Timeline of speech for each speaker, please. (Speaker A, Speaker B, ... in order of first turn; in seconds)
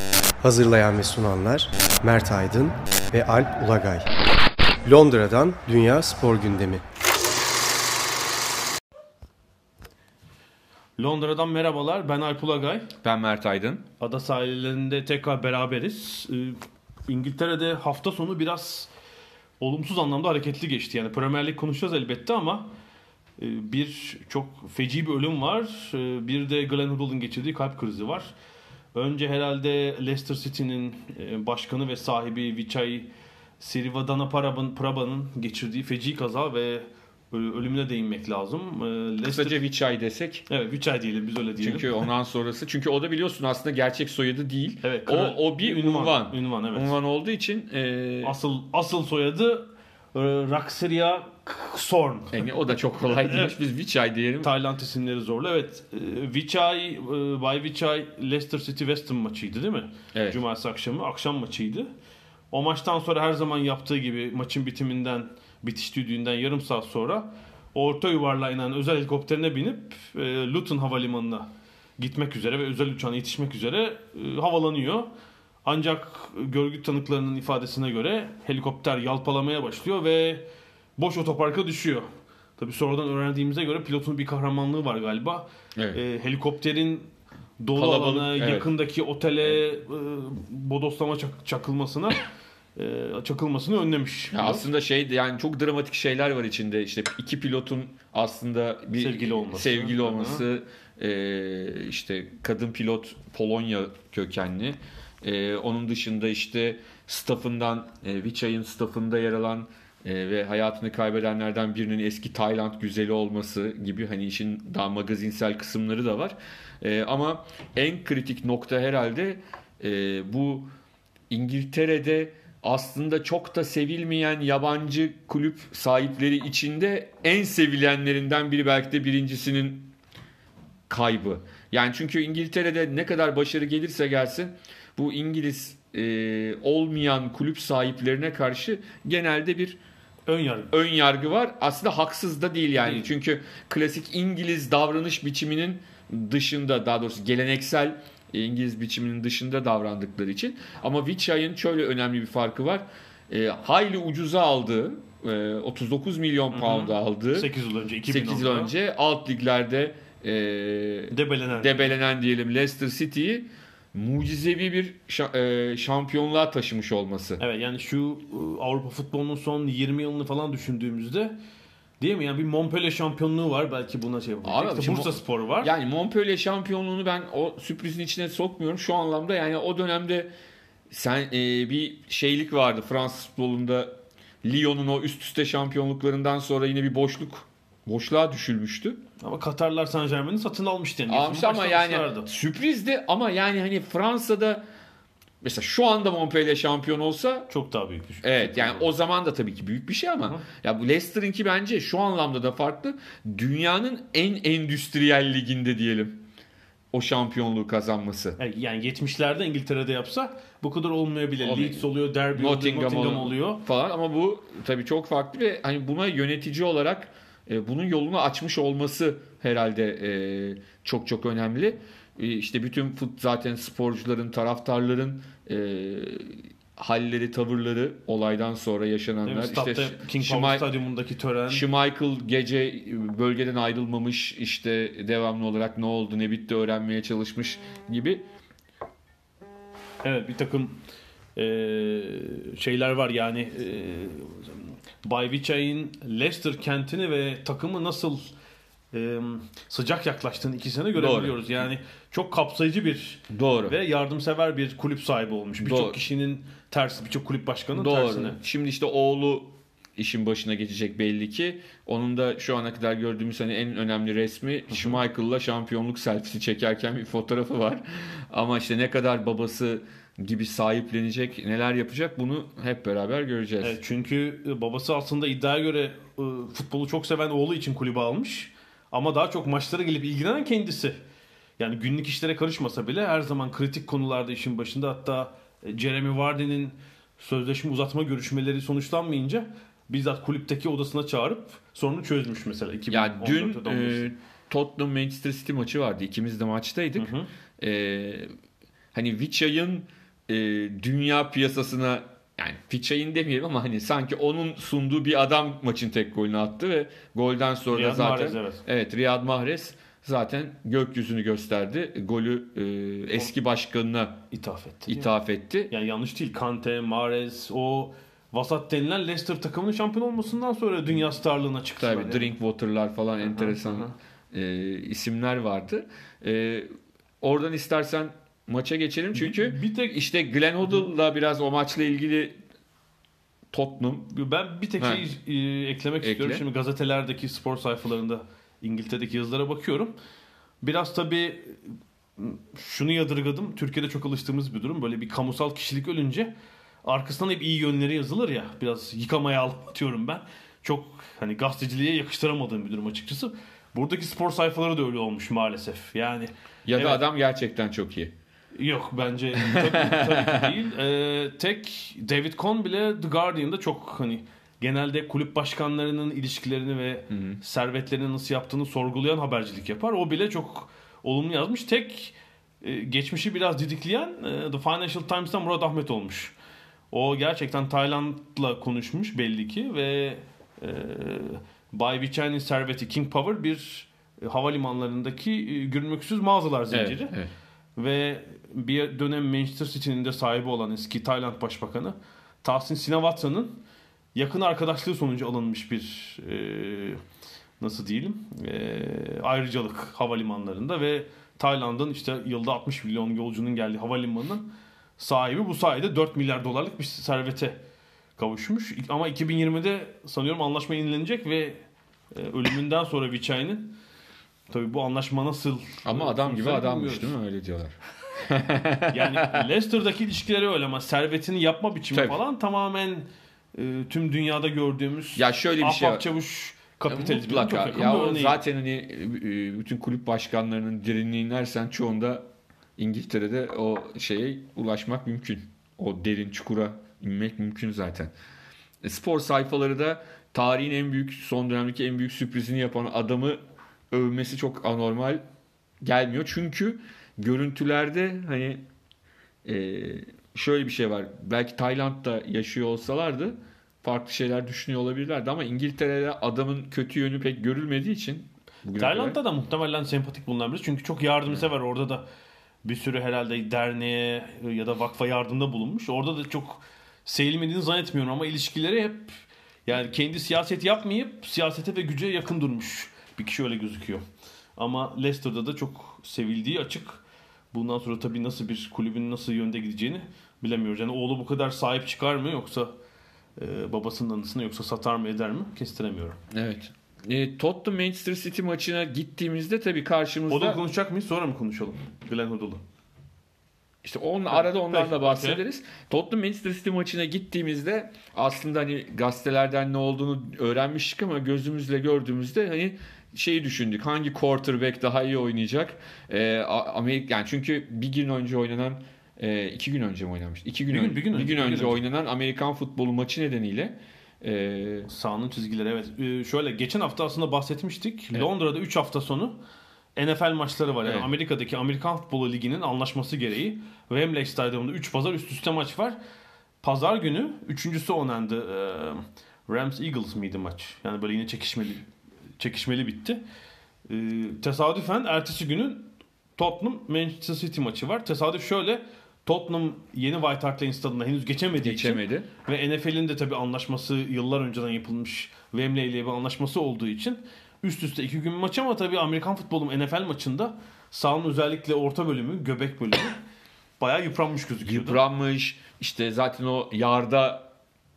Speaker A: 0.4-4.1, 4.8-6.8
Speaker B: 11.0-12.9, 14.0-18.9, 19.6-22.7, 23.4-28.3, 28.9-33.1, 33.6-39.6, 40.5-42.0, 44.8-47.0, 48.2-52.4, 53.2-53.5, 54.4-61.9, 62.5-75.1, 75.6-80.5, 81.0-92.2, 92.8-94.7, 98.9-100.5, 140.3-140.7, 156.5-158.7, 161.1-161.9, 167.4-171.3, 172.0-175.7, 189.2-192.3, 197.5-198.9, 208.4-213.6, 229.2-231.7, 240.0-240.8, 241.3-248.3, 248.9-258.4, 264.7-264.9, 273.6-281.0, 281.6-294.1, 296.9-297.3, 307.7-308.6, 314.3-315.1, 315.7-322.3, 323.2-323.9, 329.1-330.0, 334.1-339.9, 340.6-346.3, 346.8-357.0, 358.6-376.3, 376.9-387.1, 387.8-393.6, 394.1-397.0, 397.6-407.6, 408.2-413.8, 414.5-417.1, 418.9-428.4, 458.7-462.0, 462.6-474.0, 474.6-482.7, 483.4-486.2, 490.3-492.6, 494.3-495.4, 510.7-511.8, 514.9-519.4, 520.0-526.0, 526.6-531.9, 532.4-533.2, 533.9-553.2, 553.8-555.0
Speaker C: 13.0-13.8, 39.2-40.4, 41.6-48.3, 52.3-54.5, 87.7-88.7, 94.3-120.7, 121.3-129.9, 130.9-139.8, 140.7-157.5, 158.1-167.4, 174.4-180.3, 180.9-189.0, 191.1-194.6, 195.4-197.5, 198.2-206.2, 206.9-208.4, 211.4-230.6, 231.5-238.2, 250.9-251.4, 253.3-253.7, 255.6-256.0, 257.7-273.8, 292.9-298.3, 298.9-314.2, 314.9-315.7, 321.8-332.4, 333.5-334.1, 336.0-336.4, 356.6-358.1, 359.5-360.5, 367.1-367.4, 386.7-387.3, 415.8-419.4, 421.9-422.2, 425.1-426.0, 426.9-432.2, 432.8-438.1, 438.8-443.4, 443.9-445.2, 445.8-448.6, 449.4-459.2, 486.3-490.6, 493.8-514.9, 541.6-542.3, 554.6-557.5